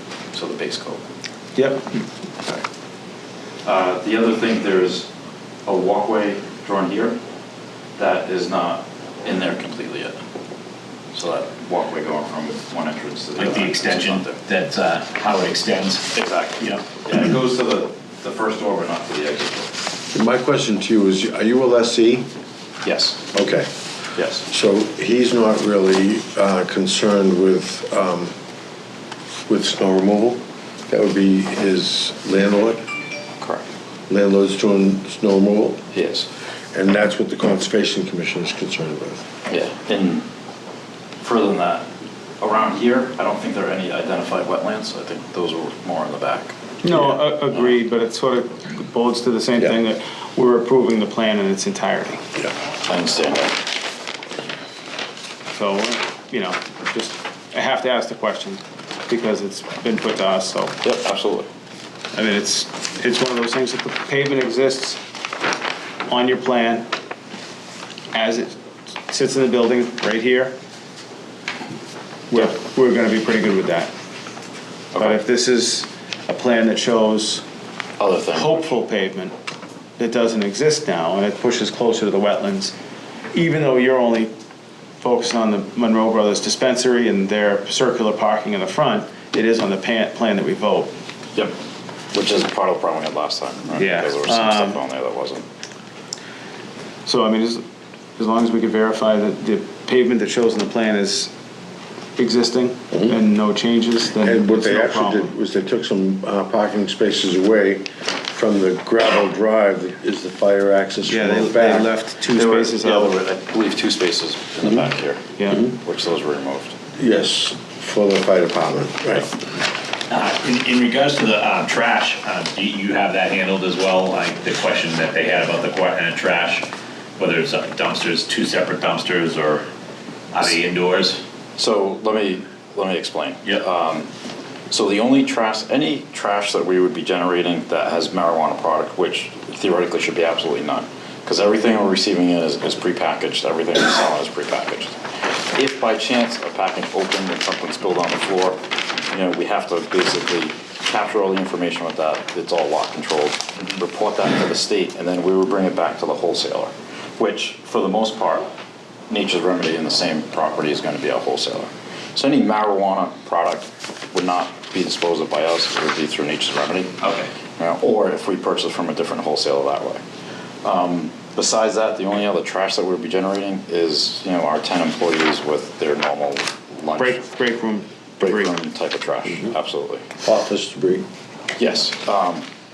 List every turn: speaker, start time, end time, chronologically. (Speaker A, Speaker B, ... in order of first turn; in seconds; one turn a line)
Speaker A: 0.3-1.0
Speaker B: 1.5-1.9
Speaker A: 3.6-5.1
Speaker A: 5.6-7.2
Speaker A: 8.0-10.2
Speaker A: 11.1-14.4
Speaker C: 13.4-16.8
Speaker A: 16.1-19.7
Speaker D: 20.1-22.3
Speaker A: 22.8-23.3
Speaker D: 23.3-23.7
Speaker A: 24.1-24.4
Speaker D: 24.4-28.3
Speaker D: 29.5-32.8
Speaker A: 33.4-33.6
Speaker D: 34.1-35.8
Speaker A: 35.9-36.3
Speaker D: 36.7-39.3
Speaker A: 39.5-40.3
Speaker A: 41.2-41.9
Speaker A: 42.4-46.6
Speaker B: 46.8-52.2
Speaker A: 52.9-53.6
Speaker B: 55.5-60.8
Speaker A: 60.8-61.5
Speaker B: 62.1-65.0
Speaker B: 66.0-66.9
Speaker B: 68.1-68.6
Speaker B: 69.1-70.5
Speaker B: 72.3-73.9
Speaker A: 74.9-75.2
Speaker B: 75.0-77.4
Speaker A: 78.0-78.6
Speaker B: 78.3-79.3
Speaker B: 80.0-82.8
Speaker B: 83.3-84.3
Speaker B: 85.0-90.9
Speaker A: 92.1-95.4
Speaker B: 93.7-94.8
Speaker B: 97.0-97.6
Speaker B: 98.2-101.3
Speaker B: 102.2-105.3
Speaker D: 104.2-111.9
Speaker B: 111.1-113.1
Speaker A: 112.3-116.8
Speaker B: 115.4-115.6
Speaker D: 117.0-119.3
Speaker C: 120.1-126.7
Speaker C: 127.2-129.6
Speaker C: 130.3-131.2
Speaker A: 131.6-134.1
Speaker A: 134.7-158.5
Speaker A: 159.1-166.9
Speaker C: 167.0-167.3
Speaker A: 167.6-170.0
Speaker A: 170.6-177.2
Speaker B: 177.0-178.5
Speaker A: 178.2-180.1
Speaker D: 180.2-181.0
Speaker A: 181.6-182.4